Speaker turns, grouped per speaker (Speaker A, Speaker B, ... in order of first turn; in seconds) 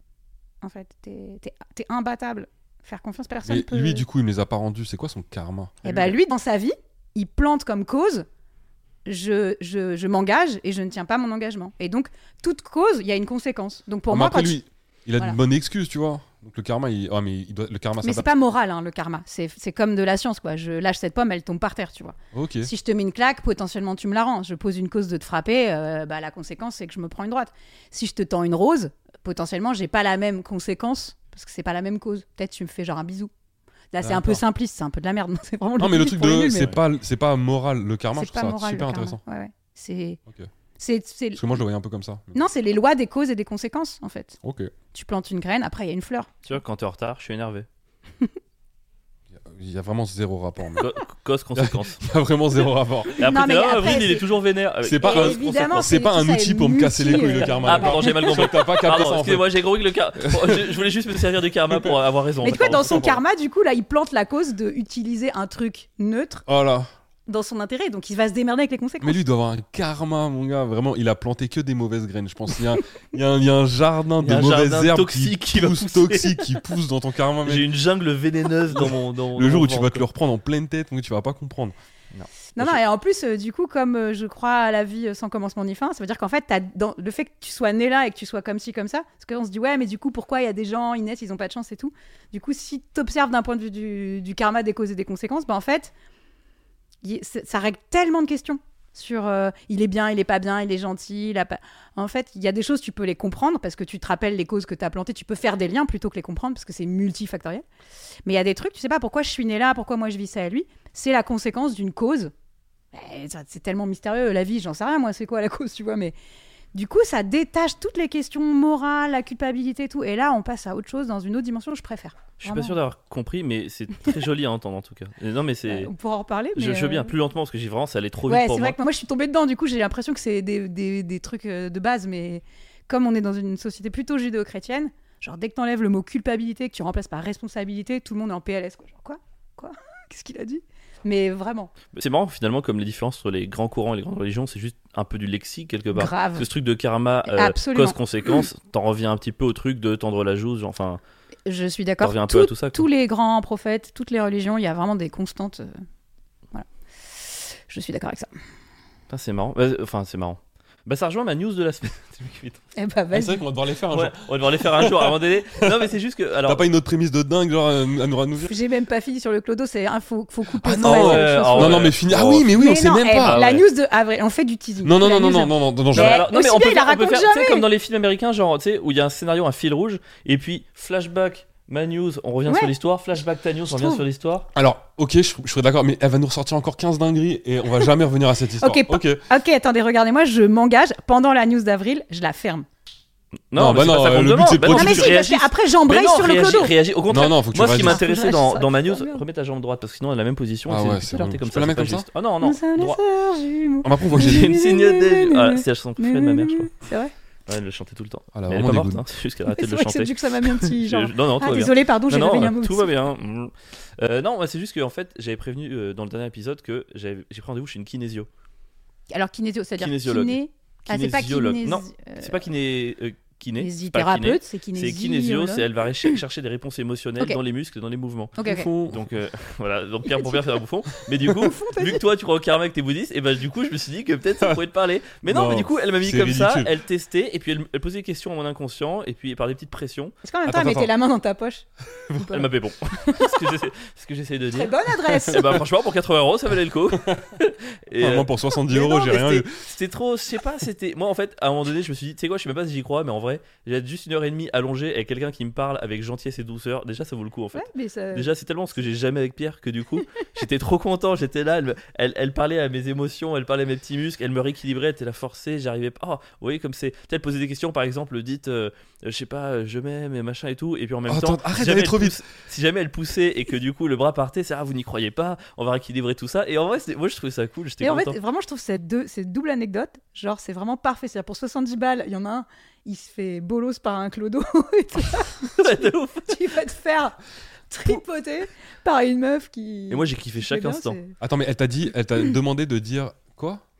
Speaker A: 0.6-4.0, 5.8-8.3, 9.1-14.6, 18.0-33.3, 33.9-36.8, 38.2-40.2, 40.8-41.6, 42.3-44.4, 44.9-46.5, 53.2-54.3, 55.0-58.4, 62.4-66.5, 67.3-69.2, 82.5-95.9, 97.0-107.6, 108.3-112.3, 112.9-116.2, 116.7-122.8, 125.7-127.1, 128.3-141.7, 145.9-146.5, 147.3-148.4, 151.5-155.8, 157.2-158.3, 162.8-163.4, 168.4-171.9, 172.5-177.7, 182.5-182.7, 183.7-184.1, 188.6-192.7, 194.6-196.8, 197.7-199.2, 202.4-207.1, 209.5-212.9, 219.1-222.4, 223.6-226.2, 228.4-228.7, 230.1-230.5, 231.3-232.0, 240.2-242.5, 243.1-243.6, 244.5-245.6, 248.6-249.4, 257.6-258.3, 277.8-287.2, 287.7-291.1
Speaker B: 3.5-5.9, 14.1-18.3, 22.3-22.7, 34.0-34.4, 35.8-39.2, 41.4-42.4, 44.4-44.7, 49.3-50.9, 51.6-53.3, 54.8-59.5, 60.2-60.8, 66.5-66.9, 69.0-77.7, 78.7-81.8, 163.1-165.8, 166.5-168.6, 170.6-173.4, 174.8-176.2, 184.6-189.2, 193.6-195.2, 197.1-198.0, 200.7-202.1, 203.8-204.6, 208.3-209.1, 228.4-229.2, 235.2-236.7, 240.5-240.9, 245.3-245.6, 246.9-247.3, 248.0-249.5, 271.1-272.2, 291.2-293.6
Speaker C: 5.8-6.2, 46.5-47.7, 50.8-52.0, 53.2-55.9, 57.6-63.2, 74.2-76.6, 77.4-80.1, 82.1-82.8, 122.4-125.9, 126.6-128.8, 141.9-151.0, 152.0-152.9, 159.1-162.6, 163.9-166.7, 170.8-172.5, 173.2-173.6, 175.9-184.5, 193.5-203.0, 204.1-206.7, 207.5-218.3, 219.8-240.1, 242.3-248.3, 249.5-278.2, 285.5-286.4, 289.9-291.0